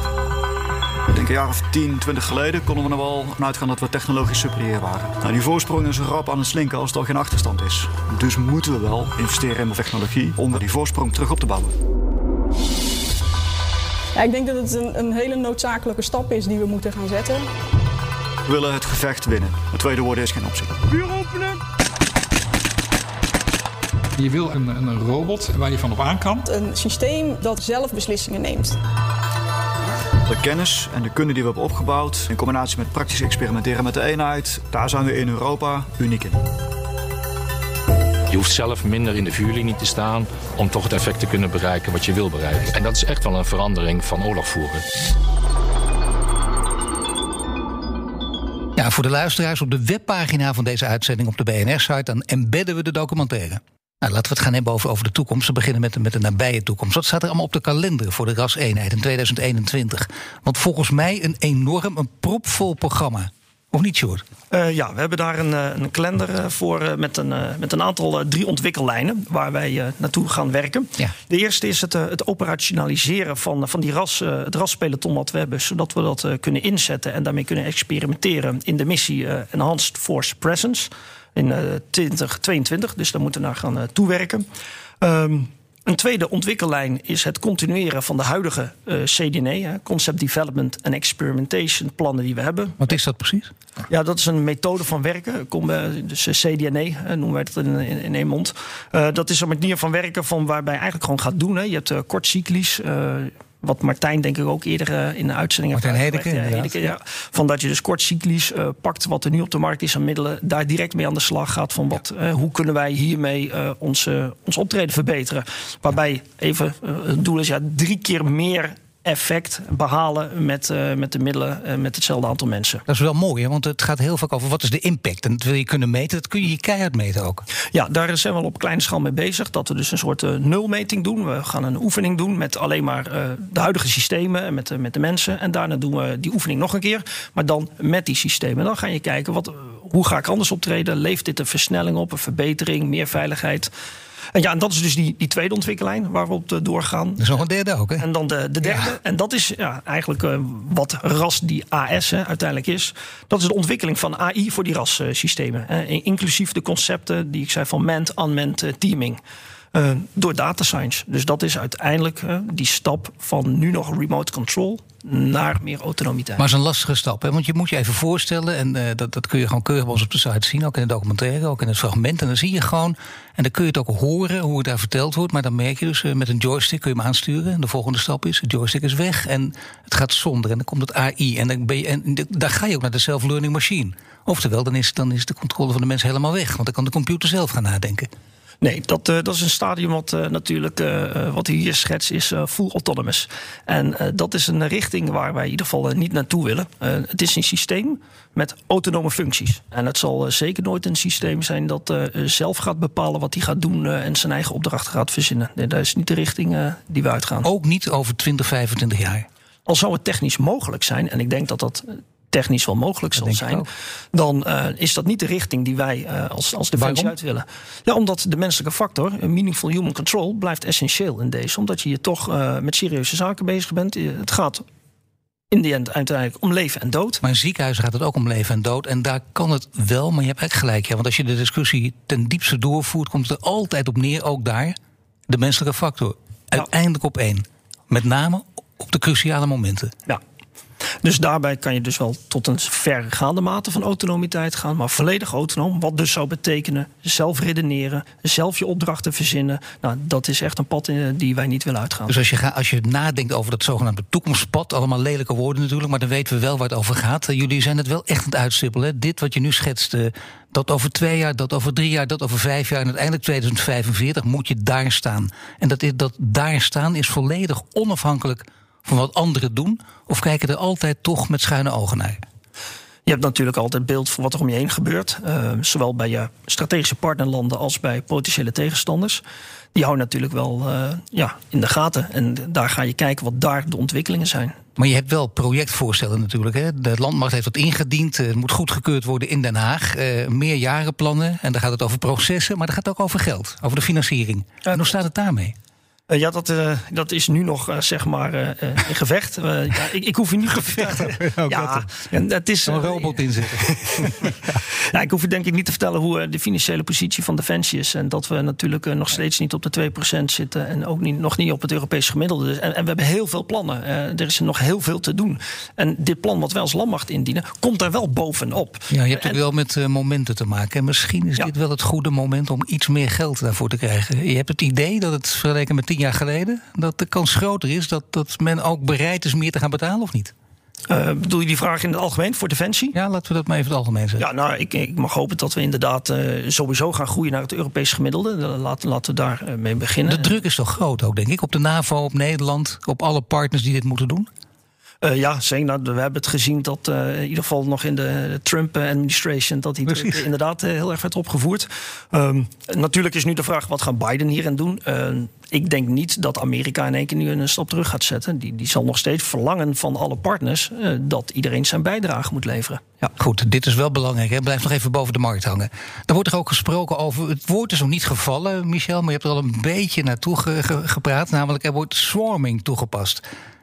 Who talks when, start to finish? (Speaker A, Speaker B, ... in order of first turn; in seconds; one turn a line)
Speaker A: 1.1-11.8
Speaker B: 14.1-17.4
Speaker A: 18.4-20.9
Speaker C: 24.2-26.4
Speaker B: 26.4-28.8
Speaker A: 30.2-36.4
Speaker D: 38.3-44.8
Speaker E: 48.8-64.2
Speaker F: 64.5-84.5
Speaker F: 85.0-92.8
Speaker E: 92.8-93.5
Speaker F: 93.9-122.8
Speaker E: 105.7-106.9
Speaker E: 122.9-127.4
Speaker F: 127.7-143.7
Speaker F: 144.3-147.2
Speaker E: 147.2-148.1
Speaker F: 148.0-159.2
Speaker E: 148.6-148.9
Speaker F: 159.7-166.4
Speaker E: 166.4-188.1
Speaker F: 188.6-207.5
Speaker E: 207.4-209.3
Speaker F: 209.7-224.6
Speaker E: 213.2-213.7
Speaker E: 216.8-217.1
Speaker F: 225.5-227.2
Speaker E: 227.2-234.8
Speaker E: 235.3-239.9
Speaker F: 241.0-252.1
Speaker E: 252.1-272.2
Speaker F: 273.1-279.2
Speaker F: 279.7-284.5
Speaker E: 284.8-295.5
Speaker F: 296.1-319.4
Speaker E: 300.6-302.0
Speaker E: 302.7-304.6
Speaker E: 318.9-330.3
Speaker F: 330.9-332.9
Speaker E: 332.9-334.2
Speaker F: 334.2-340.3
Speaker E: 340.1-344.3
Speaker F: 345.0-363.1
Speaker E: 349.9-350.2
Speaker E: 363.1-373.2